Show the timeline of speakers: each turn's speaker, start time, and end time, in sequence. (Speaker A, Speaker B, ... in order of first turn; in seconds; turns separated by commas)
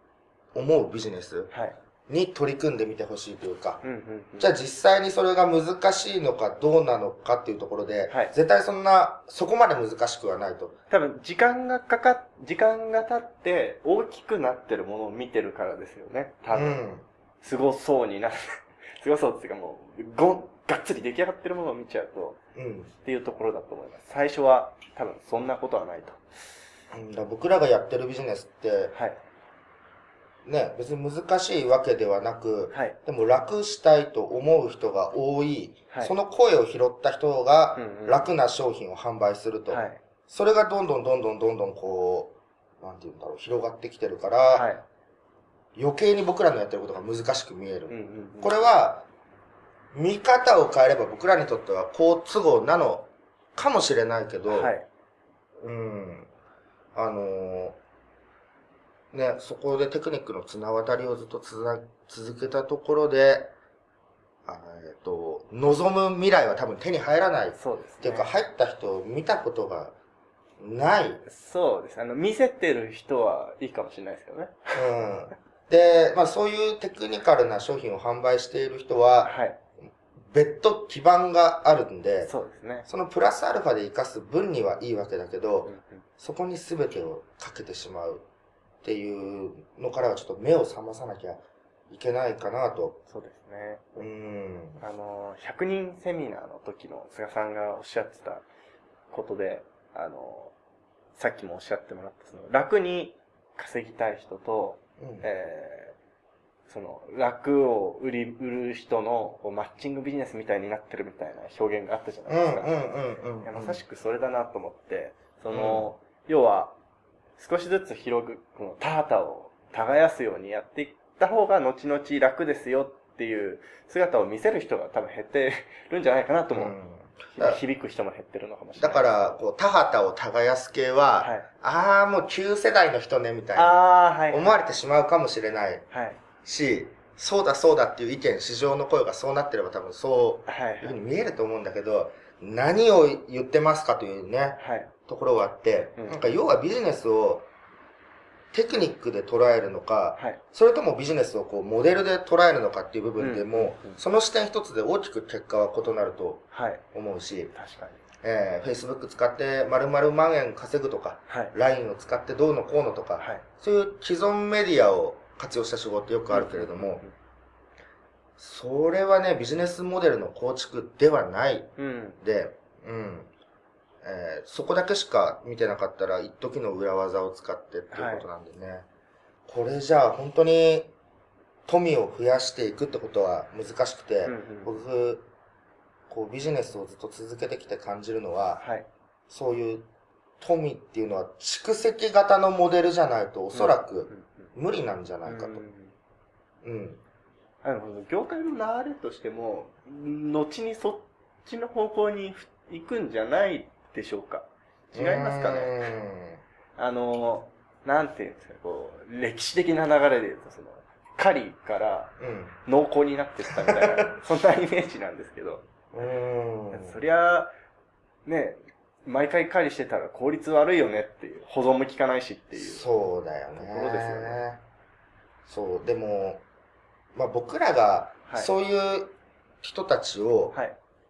Speaker A: 0.5-1.5, Speaker B: 1.5-1.8, Speaker A: 2.1-3.8, Speaker B: 3.8-4.5, Speaker A: 4.4-10.7, Speaker B: 10.9-16.8, Speaker A: 16.5-17.0, Speaker B: 17.4-22.4, Speaker A: 22.5-22.9, Speaker B: 23.0-26.2, Speaker A: 26.9-28.9, Speaker A: 30.4-44.7, Speaker B: 37.8-38.3, Speaker B: 39.7-40.0, Speaker B: 44.5-44.8, Speaker A: 45.8-49.0, Speaker B: 47.9-48.5, Speaker A: 49.9-54.7, Speaker B: 54.5-54.8, Speaker A: 55.6-56.3, Speaker A: 56.9-57.8, Speaker A: 59.1-63.5, Speaker A: 64.5-69.9, Speaker B: 67.5-68.3, Speaker A: 70.6-71.2, Speaker B: 71.2-74.9, Speaker A: 74.7-79.3, Speaker B: 79.2-79.6, Speaker A: 80.3-82.3, Speaker B: 82.2-82.9, Speaker A: 82.8-88.2, Speaker B: 85.6-86.0, Speaker A: 88.8-93.0, Speaker B: 93.1-94.0, Speaker A: 94.0-94.8, Speaker B: 94.8-98.4, Speaker B: 99.1-100.5, Speaker B: 101.2-105.9, Speaker A: 105.0-105.3, Speaker B: 106.7-112.8, Speaker A: 112.3-113.8, Speaker B: 113.4-116.7, Speaker A: 115.5-115.9, Speaker B: 117.4-126.7, Speaker A: 126.5-127.6, Speaker B: 127.4-129.4, Speaker A: 128.8-135.8, Speaker B: 131.2-131.5, Speaker B: 133.6-134.6, Speaker B: 135.9-136.2, Speaker A: 136.4-147.5, Speaker B: 140.5-141.0, Speaker B: 144.6-144.9, Speaker B: 146.0-146.3, Speaker A: 148.5-157.5, Speaker B: 153.2-154.0, Speaker B: 156.5-156.8, Speaker B: 157.5-158.0, Speaker A: 158.2-167.0, Speaker B: 161.3-161.5, Speaker B: 163.2-163.4, Speaker B: 166.3-167.1, Speaker A: 168.4-173.3, Speaker B: 171.8-172.2, Speaker A: 174.0-178.8, Speaker B: 177.9-178.3, Speaker A: 179.5-180.9, Speaker A: 181.7-185.2, Speaker B: 184.2-184.7, Speaker A: 186.1-188.6, Speaker B: 188.6-188.9, Speaker A: 189.3-189.8, Speaker A: 190.4-195.6, Speaker B: 193.5-194.5, Speaker B: 195.2-195.9, Speaker A: 196.6-197.0, Speaker B: 197.6-205.8, Speaker A: 204.9-206.4, Speaker B: 206.8-212.1, Speaker A: 212.2-212.6, Speaker B: 212.7-215.6, Speaker A: 213.5-214.1, Speaker A: 215.9-217.0, Speaker B: 216.7-217.5, Speaker B: 218.2-222.9, Speaker A: 222.5-224.6, Speaker B: 223.5-224.4, Speaker A: 225.5-226.4, Speaker A: 227.1-230.6